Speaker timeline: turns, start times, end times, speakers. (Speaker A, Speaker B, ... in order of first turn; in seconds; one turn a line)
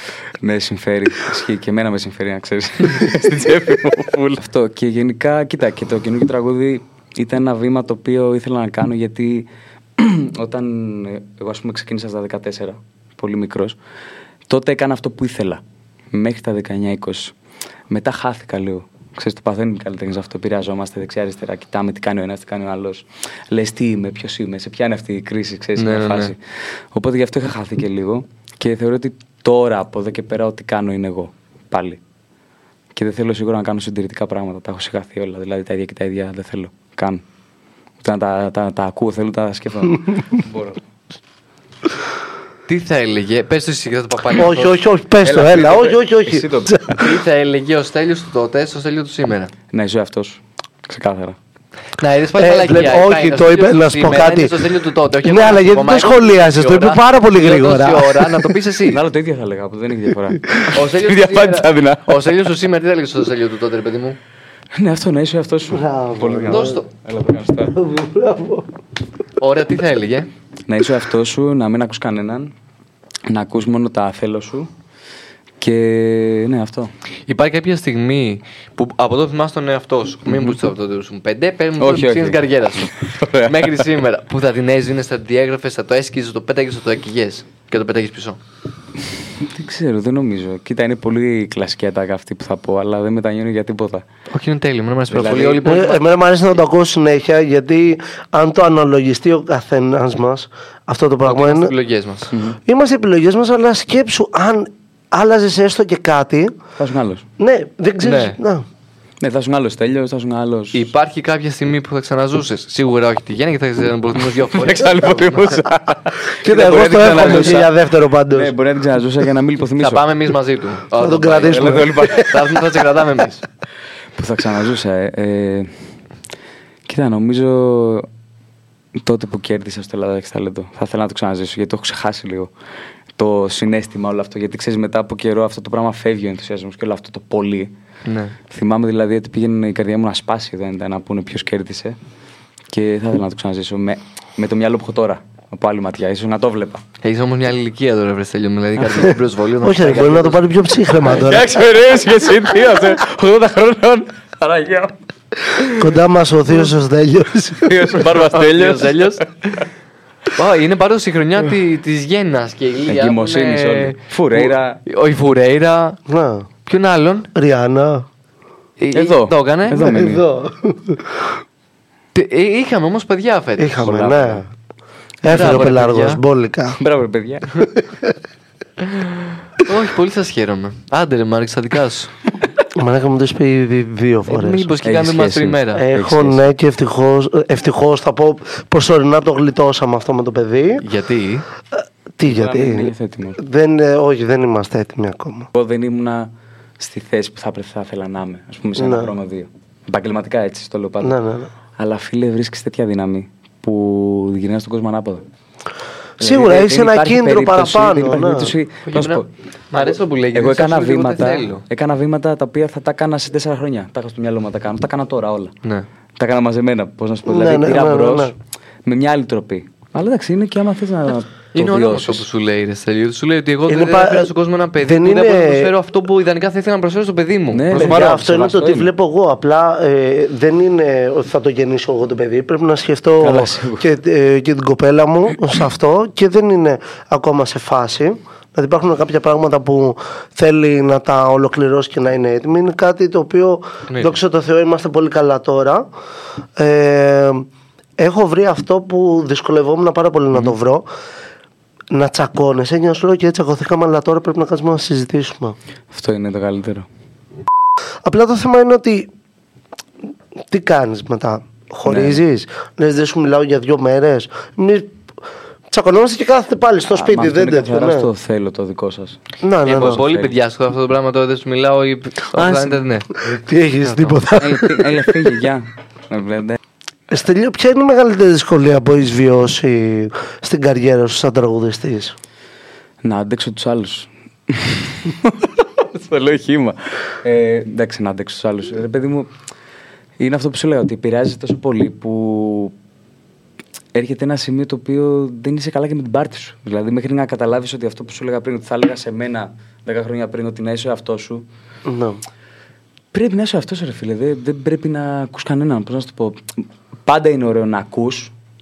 Speaker A: 0.4-13.8
Speaker A: 14.5-15.6
Speaker A: 16.1-17.3
Speaker A: 17.9-26.4
Speaker B: 25.8-26.3
Speaker A: 26.9-32.0
Speaker A: 33.0-37.2
Speaker A: 38.0-40.8
Speaker B: 42.7-44.8
Speaker C: 44.4-47.1
Speaker A: 45.2-47.0
Speaker B: 47.0-49.5
Speaker A: 49.7-51.4
Speaker B: 52.0-59.0
Speaker C: 52.4-54.7
Speaker C: 55.2-58.5
Speaker A: 58.9-62.4
Speaker B: 60.7-64.2
Speaker A: 64.8-67.8
Speaker C: 65.7-66.8
Speaker B: 66.5-66.9
Speaker C: 67.7-68.7
Speaker B: 69.4-70.3
Speaker A: 70.7-72.5
Speaker A: 73.3-74.7
Speaker A: 75.6-76.9
Speaker B: 77.3-88.4
Speaker A: 80.3-80.6
Speaker A: 81.8-83.9
Speaker A: 89.4-94.0
Speaker B: 94.3-96.0
Speaker A: 95.1-95.7
Speaker C: 95.6-101.7
Speaker B: 101.2-102.3
Speaker A: 102.3-102.6
Speaker C: 102.7-106.6
Speaker A: 106.8-107.2
Speaker C: 107.4-108.7
Speaker B: 108.0-108.4
Speaker A: 109.2-110.9
Speaker B: 110.7-115.5
Speaker A: 114.5-117.8
Speaker C: 116.4-118.5
Speaker B: 117.1-117.6
Speaker A: 118.3-120.1
Speaker B: 119.8-123.4
Speaker C: 121.0-122.2
Speaker A: 121.4-122.6
Speaker A: 124.2-125.7
Speaker A: 126.9-128.1
Speaker A: 129.0-132.5
Speaker A: 133.2-137.7
Speaker B: 138.1-138.4
Speaker A: 138.5-142.0
Speaker A: 142.7-146.8
Speaker B: 147.0-150.4
Speaker C: 149.6-151.6
Speaker A: 151.1-154.9
Speaker C: 155.8-158.0
Speaker A: 157.6-159.2
Speaker B: 158.2-159.6
Speaker B: 160.3-166.0
Speaker A: 162.9-164.8
Speaker C: 166.1-166.5
Speaker B: 166.7-167.3
Speaker C: 167.3-168.1
Speaker B: 168.8-169.9
Speaker A: 168.9-170.3
Speaker C: 169.8-171.3
Speaker B: 172.1-173.8
Speaker C: 173.6-174.5
Speaker A: 173.8-174.4
Speaker C: 175.2-176.8
Speaker B: 175.3-176.2
Speaker A: 175.3-175.6
Speaker A: 176.8-177.7
Speaker B: 179.6-182.1
Speaker C: 182.7-184.7
Speaker B: 184.3-185.8
Speaker A: 184.8-186.5
Speaker C: 185.8-190.8
Speaker B: 190.8-191.5
Speaker C: 191.8-195.5
Speaker A: 192.2-193.4
Speaker A: 195.5-201.2
Speaker C: 198.8-199.2
Speaker C: 201.0-201.5
Speaker A: 201.8-205.2
Speaker C: 206.2-208.6
Speaker A: 206.2-209.3
Speaker B: 208.9-211.6
Speaker A: 210.3-215.5
Speaker A: 216.2-222.2
Speaker C: 217.3-218.3
Speaker B: 221.5-228.1
Speaker C: 223.7-224.3
Speaker C: 224.8-225.7
Speaker A: 227.5-228.9
Speaker C: 227.7-245.9
Speaker A: 233.2-233.9
Speaker B: 243.9-244.2
Speaker C: 246.6-247.5
Speaker C: 248.0-250.9
Speaker C: 251.9-255.6
Speaker A: 255.9-256.9
Speaker C: 258.0-259.1
Speaker C: 260.5-265.0
Speaker A: 261.9-262.2
Speaker C: 265.7-268.1
Speaker A: 266.9-270.3
Speaker C: 269.4-270.0
Speaker B: 269.6-273.2
Speaker C: 273.1-275.3
Speaker B: 273.8-274.2
Speaker A: 274.3-276.6
Speaker C: 277.1-282.2
Speaker A: 283.0-289.3
Speaker A: 290.2-292.7
Speaker A: 293.9-301.4
Speaker C: 301.9-302.2
Speaker A: 303.1-308.3